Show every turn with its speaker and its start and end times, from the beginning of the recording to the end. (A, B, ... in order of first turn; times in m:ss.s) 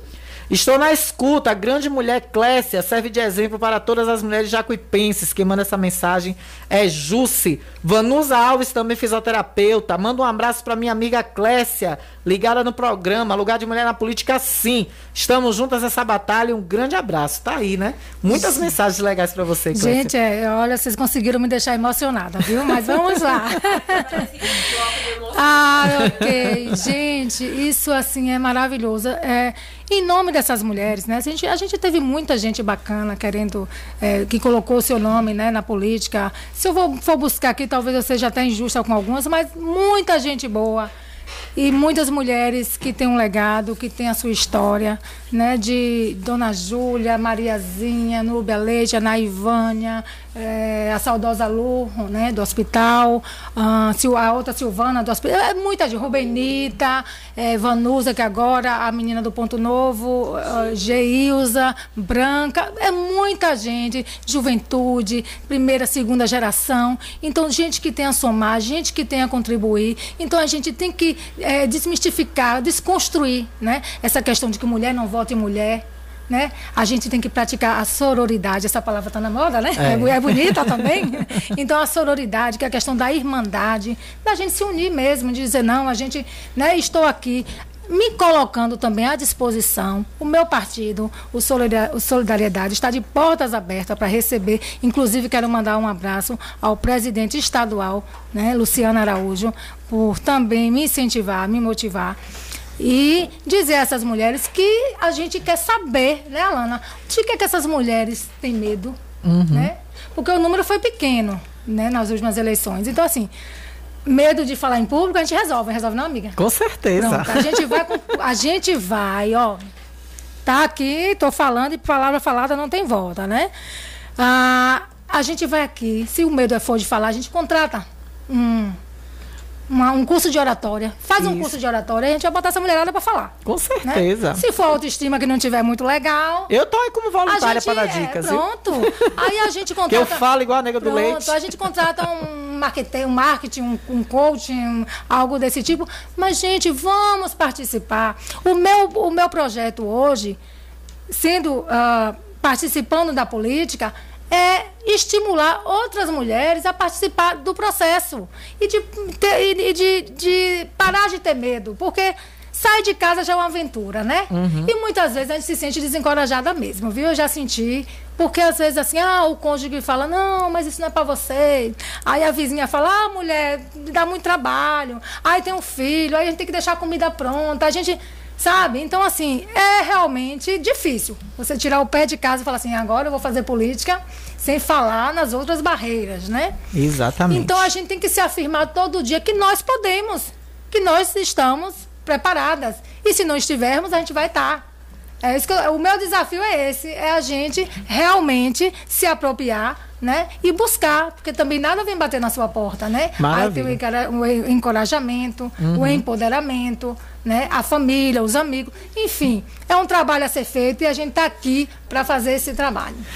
0:00.5-0:20.1 A
0:18.3-0:18.6 B
0:19.7-0:24.6 B
0:25.3-0:40.9 B
0:25.9-0:26.7 A
0:41.6-1:42.2 B
1:19.8-1:21.1 A
1:42.8-1:49.0 B
1:49.2-1:49.7 A
1:49.5-1:53.3 B
1:54.1-1:56.4 B
1:56.4-1:57.9 A
1:57.0-1:59.7 B
2:00.4-2:03.5 B
2:04.2-2:08.8 B
2:09.7-2:13.3 B
2:11.2-2:11.5 A
2:13.4-2:14.4 A
2:13.8-2:16.5 B
2:16.5-2:18.4 A
2:17.3-2:20.2 B
2:19.9-2:21.7 A
2:20.8-2:30.4 B
2:31.1-3:06.6 B
2:44.3-2:44.7 A
3:06.7-3:07.7 A
3:07.3-3:14.6 B
3:15.2-3:33.0 B
3:23.2-3:23.8 A
3:25.6-3:26.0 A